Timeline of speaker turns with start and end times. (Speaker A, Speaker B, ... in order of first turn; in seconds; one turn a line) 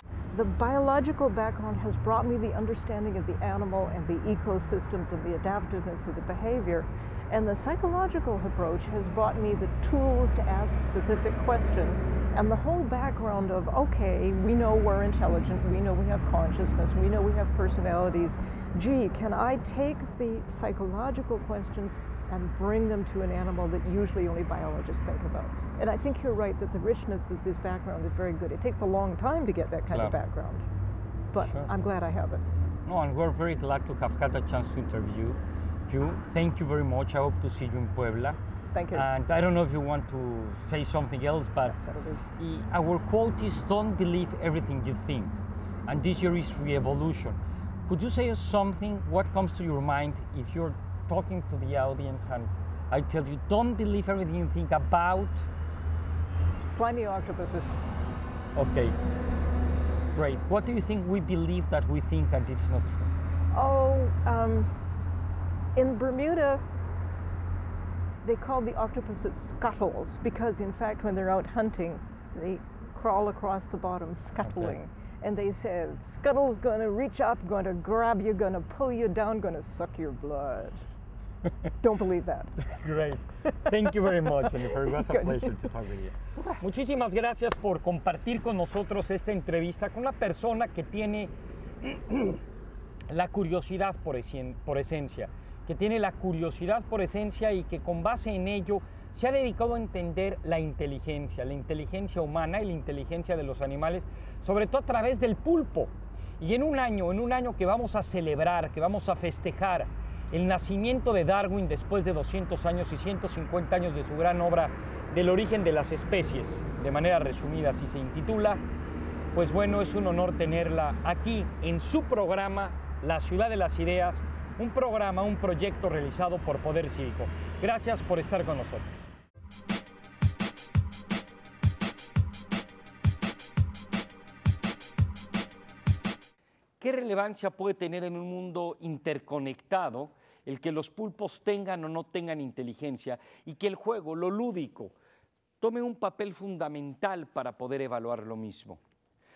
Speaker A: 0.3-30.6
Speaker A: 31.3-32.4
Speaker B: 31.4-31.7
Speaker B: 32.9-38.4
Speaker A: 38.7-39.1
Speaker B: 38.9-41.8
Speaker A: 41.8-42.2
Speaker B: 42.4-55.5
Speaker A: 56.6-57.8
Speaker B: 58.5-59.0
Speaker B: 60.1-63.1
Speaker A: 63.5-64.7
Speaker A: 65.8-66.6
Speaker A: 68.2-80.9
Speaker B: 74.4-74.8
Speaker A: 81.8-82.6
Speaker B: 82.6-92.4
Speaker A: 84.5-85.6
Speaker B: 93.1-118.6
Speaker B: 119.3-128.9
Speaker B: 136.8-144.9
Speaker B: 145.6-148.8